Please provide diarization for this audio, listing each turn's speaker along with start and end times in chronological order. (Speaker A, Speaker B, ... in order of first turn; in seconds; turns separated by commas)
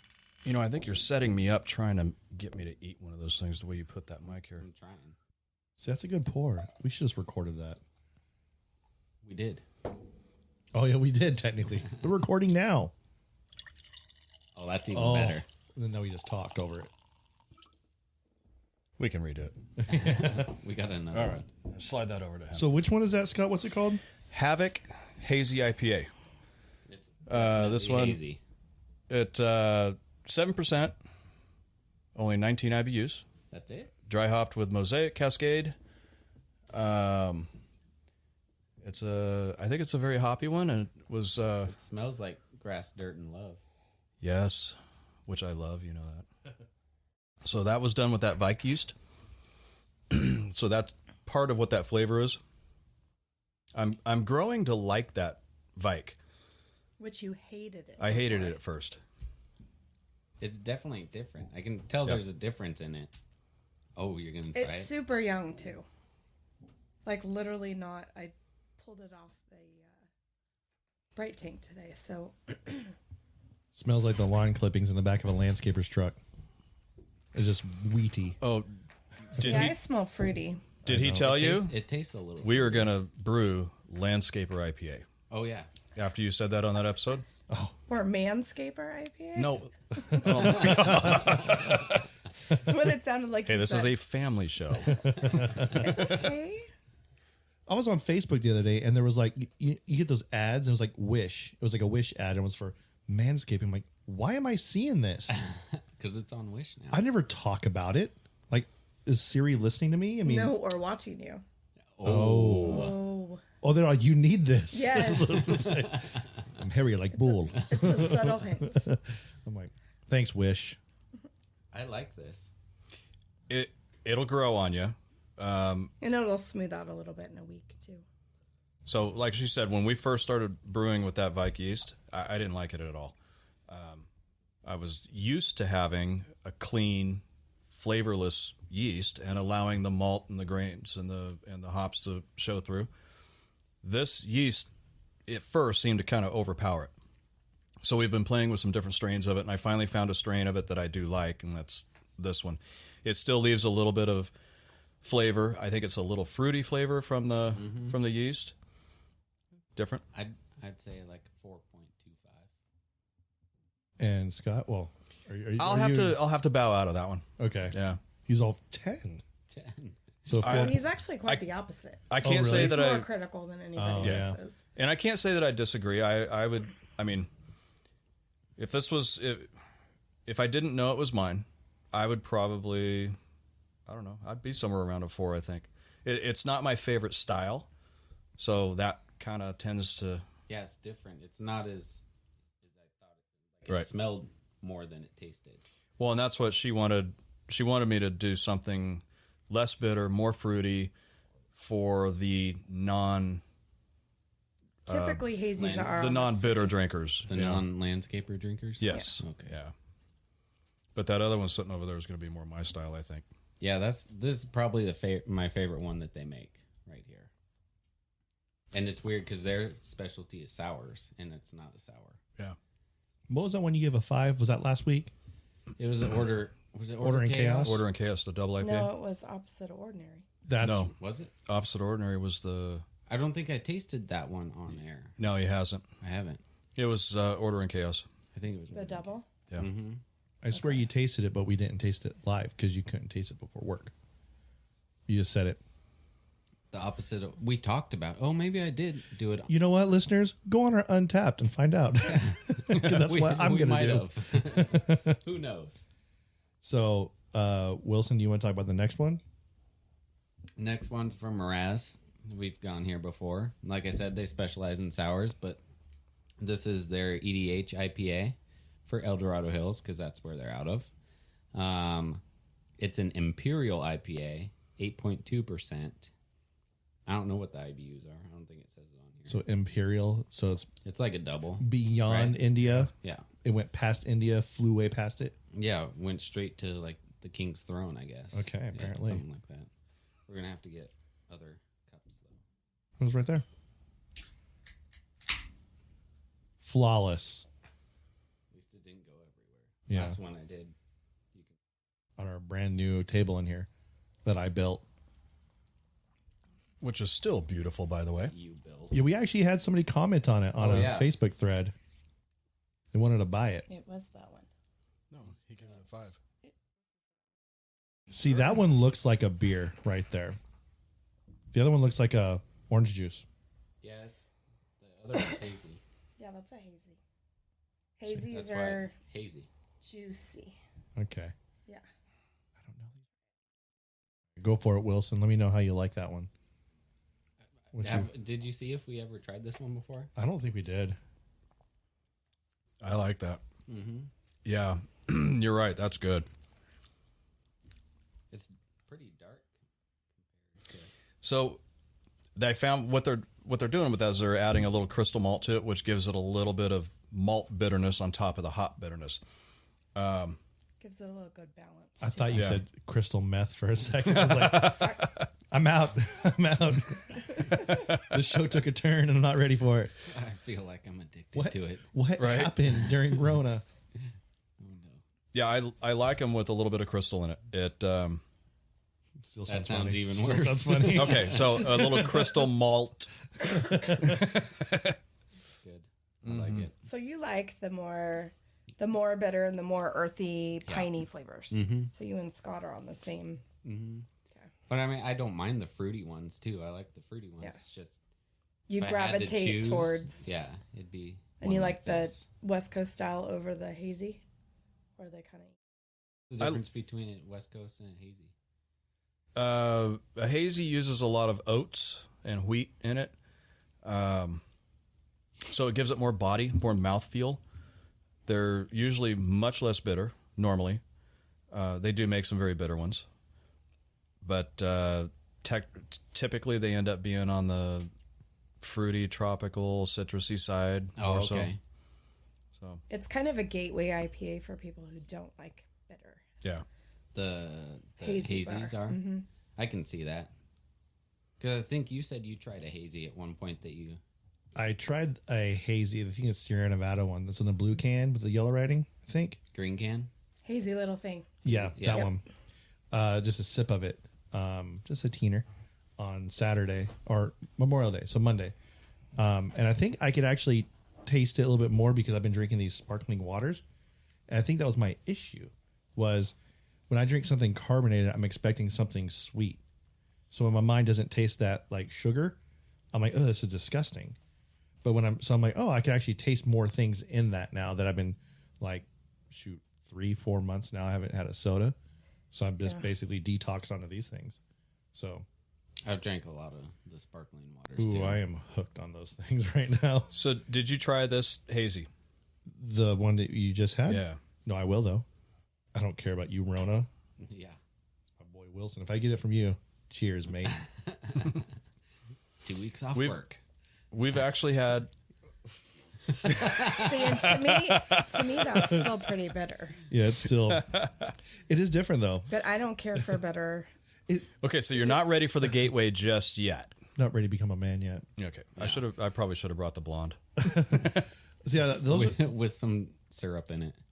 Speaker A: 0.5-4.7, Speaker B: 4.3-5.2, Speaker C: 5.8-7.8, Speaker B: 9.2-9.7, Speaker C: 10.7-12.9, Speaker B: 14.6-15.5, Speaker C: 14.9-16.9, Speaker A: 19.0-20.4, Speaker B: 19.9-21.5, Speaker A: 21.1-22.8, Speaker C: 22.6-24.0, Speaker A: 24.3-26.1, Speaker B: 26.9-28.4, Speaker A: 27.3-28.2, Speaker A: 29.1-31.0, Speaker A: 32.1-33.2, Speaker B: 33.5-33.9, Speaker A: 34.1-35.8, Speaker A: 36.7-37.5, Speaker A: 38.8-41.7, Speaker B: 41.7-43.6, Speaker A: 44.2-44.8, Speaker A: 45.3-46.3, Speaker A: 47.4-48.9, Speaker A: 50.1-52.4, Speaker A: 53.8-56.2, Speaker D: 57.0-58.6, Speaker A: 58.0-59.0, Speaker B: 60.4-63.1, Speaker B: 64.0-64.9, Speaker D: 64.5-65.8, Speaker D: 67.0-70.0, Speaker D: 71.2-73.0, Speaker C: 73.7-76.2, Speaker C: 77.3-78.4, Speaker A: 78.4-78.7, Speaker A: 79.3-79.8, Speaker D: 79.4-80.7, Speaker C: 79.4-79.7, Speaker C: 80.8-81.4, Speaker A: 80.9-81.7, Speaker B: 81.2-82.9, Speaker A: 82.4-85.1, Speaker B: 85.3-85.7, Speaker A: 86.0-87.2, Speaker C: 87.5-87.8, Speaker D: 87.9-90.8, Speaker A: 89.3-92.0, Speaker C: 90.1-91.9, Speaker B: 91.3-91.6, Speaker D: 92.5-94.0, Speaker A: 93.5-95.7, Speaker C: 94.8-96.0, Speaker D: 95.2-96.7, Speaker C: 97.7-105.4, Speaker B: 105.3-107.1, Speaker C: 106.9-110.6, Speaker D: 110.2-111.4, Speaker B: 111.9-112.9, Speaker C: 112.0-112.9, Speaker A: 112.1-112.8, Speaker D: 112.7-113.4, Speaker C: 113.6-120.8, Speaker D: 114.7-115.7, Speaker D: 117.1-118.9, Speaker B: 121.7-122.5, Speaker A: 123.5-125.9, Speaker D: 126.0-128.0, Speaker A: 128.9-133.2, Speaker A: 133.7-134.1, Speaker A: 134.7-142.9, Speaker A: 143.8-144.7, Speaker A: 145.3-146.9, Speaker A: 147.8-154.3, Speaker A: 155.0-158.5, Speaker B: 157.5-158.0, Speaker A: 159.8-160.0, Speaker B: 160.1-162.5, Speaker C: 164.0-166.2, Speaker A: 165.6-168.0, Speaker C: 167.4-169.2, Speaker B: 169.5-170.3, Speaker C: 170.3-170.8, Speaker A: 170.4-171.5, Speaker D: 170.4-174.6, Speaker A: 172.1-173.1, Speaker C: 172.2-172.8, Speaker C: 173.8-174.4, Speaker A: 174.0-177.3, Speaker A: 178.6-179.5, Speaker A: 180.3-183.2, Speaker A: 183.9-187.7, Speaker A: 188.4-190.2, Speaker B: 190.5-192.0, Speaker B: 192.6-195.7, Speaker A: 196.0-200.9, Speaker A: 201.6-203.4, Speaker D: 204.9-206.8, Speaker A: 204.9-207.6, Speaker B: 205.6-206.0, Speaker B: 207.3-209.5, Speaker A: 208.8-209.7, Speaker A: 210.9-213.3, Speaker B: 213.6-217.3, Speaker B: 218.7-222.2, Speaker C: 223.3-225.1, Speaker B: 225.8-227.8, Speaker C: 227.0-227.8, Speaker A: 227.6-228.9, Speaker D: 228.6-230.3, Speaker C: 230.5-230.9, Speaker A: 230.6-230.9, Speaker B: 230.8-231.3, Speaker A: 231.4-232.9, Speaker B: 233.1-235.2, Speaker A: 235.2-235.8, Speaker B: 236.0-236.4, Speaker A: 236.8-238.1, Speaker B: 238.3-240.0, Speaker D: 238.7-239.3, Speaker C: 240.4-243.9, Speaker C: 245.1-245.6, Speaker B: 246.7-249.5, Speaker C: 249.5-255.2, Speaker B: 252.1-255.8, Speaker C: 256.6-259.2, Speaker B: 260.6-265.6, Speaker B: 266.4-270.9, Speaker B: 271.5-272.2, Speaker B: 272.8-276.1, Speaker B: 277.1-279.4, Speaker C: 279.3-280.7, Speaker B: 280.9-283.3, Speaker C: 281.6-282.9, Speaker C: 283.4-285.4, Speaker B: 285.5-289.7, Speaker C: 288.3-289.2, Speaker B: 290.3-292.4, Speaker C: 293.0-293.4, Speaker C: 296.6-297.5, Speaker B: 298.5-300.8, Speaker C: 299.9-300.2, Speaker C: 302.2-303.7, Speaker C: 304.2-304.9, Speaker A: 306.8-308.3, Speaker B: 308.2-309.0, Speaker C: 308.9-311.7, Speaker B: 310.6-311.1, Speaker C: 312.9-313.7, Speaker D: 313.7-314.5, Speaker A: 315.1-316.2, Speaker B: 315.6-316.1, Speaker C: 318.1-320.4, Speaker C: 321.5-323.2, Speaker B: 323.8-324.3, Speaker B: 324.8-325.8, Speaker D: 326.2-327.0, Speaker D: 328.0-328.9, Speaker B: 328.1-329.5, Speaker D: 329.8-330.6, Speaker C: 331.0-331.3, Speaker C: 332.6-333.0, Speaker C: 334.4-336.3, Speaker B: 337.7-340.1, Speaker C: 337.7-338.1, Speaker C: 340.1-341.0, Speaker A: 342.8-343.4, Speaker B: 343.7-344.1, Speaker A: 344.4-346.3, Speaker B: 348.3-349.5, Speaker B: 350.2-350.9, Speaker A: 351.2-351.6, Speaker A: 352.4-359.2, Speaker A: 360.0-360.4, Speaker D: 360.8-362.5, Speaker C: 362.0-369.9, Speaker A: 362.3-362.6, Speaker A: 364.1-365.2, Speaker A: 367.6-368.1, Speaker B: 370.0-371.9, Speaker C: 371.3-373.6, Speaker A: 372.2-372.7, Speaker B: 374.6-375.0, Speaker A: 375.3-378.2, Speaker C: 379.2-382.2, Speaker B: 379.5-381.8, Speaker A: 380.9-385.0, Speaker C: 383.5-384.2, Speaker B: 385.6-386.7, Speaker A: 386.2-386.7, Speaker D: 386.8-393.4, Speaker B: 390.6-390.9, Speaker B: 391.5-391.9, Speaker B: 393.6-394.1, Speaker B: 394.7-398.0, Speaker D: 398.7-400.3, Speaker B: 398.8-402.2, Speaker D: 401.4-404.2, Speaker D: 405.0-405.6, Speaker B: 406.3-408.3, Speaker A: 409.4-413.1, Speaker A: 413.8-414.4, Speaker A: 415.5-417.4, Speaker A: 418.3-420.8, Speaker A: 421.5-423.1, Speaker A: 424.2-427.9, Speaker A: 428.6-431.5, Speaker B: 431.0-431.6, Speaker A: 432.6-432.8, Speaker D: 432.9-436.2, Speaker B: 437.1-439.0, Speaker D: 438.0-439.3, Speaker B: 439.6-440.3, Speaker B: 441.4-444.0, Speaker C: 444.6-449.4, Speaker B: 449.5-450.1, Speaker D: 450.4-452.1, Speaker C: 451.4-452.2, Speaker B: 451.4-452.1, Speaker C: 452.9-455.5, Speaker C: 456.0-458.5, Speaker C: 459.2-463.6, Speaker C: 464.3-466.4, Speaker C: 466.9-469.6, Speaker C: 470.3-472.4, Speaker C: 472.9-474.2, Speaker C: 474.8-481.8, Speaker C: 482.3-484.4, Speaker C: 484.9-485.3, Speaker B: 485.8-488.2, Speaker C: 487.8-490.1, Speaker A: 490.1-491.9, Speaker C: 492.5-495.1, Speaker A: 493.9-494.2, Speaker C: 495.7-496.9, Speaker B: 497.2-497.6, Speaker C: 498.2-500.6, Speaker B: 500.8-501.4, Speaker B: 502.4-503.4, Speaker A: 502.9-503.2, Speaker A: 503.9-504.9, Speaker B: 506.2-506.9, Speaker A: 506.2-508.9, Speaker D: 506.7-509.8, Speaker C: 509.9-510.7, Speaker A: 510.5-511.1, Speaker C: 511.5-512.3, Speaker D: 512.3-513.7, Speaker A: 514.4-516.7, Speaker C: 517.0-518.1, Speaker A: 518.2-521.0, Speaker B: 518.6-518.8, Speaker C: 520.4-520.9, Speaker C: 521.5-522.2, Speaker B: 521.9-523.8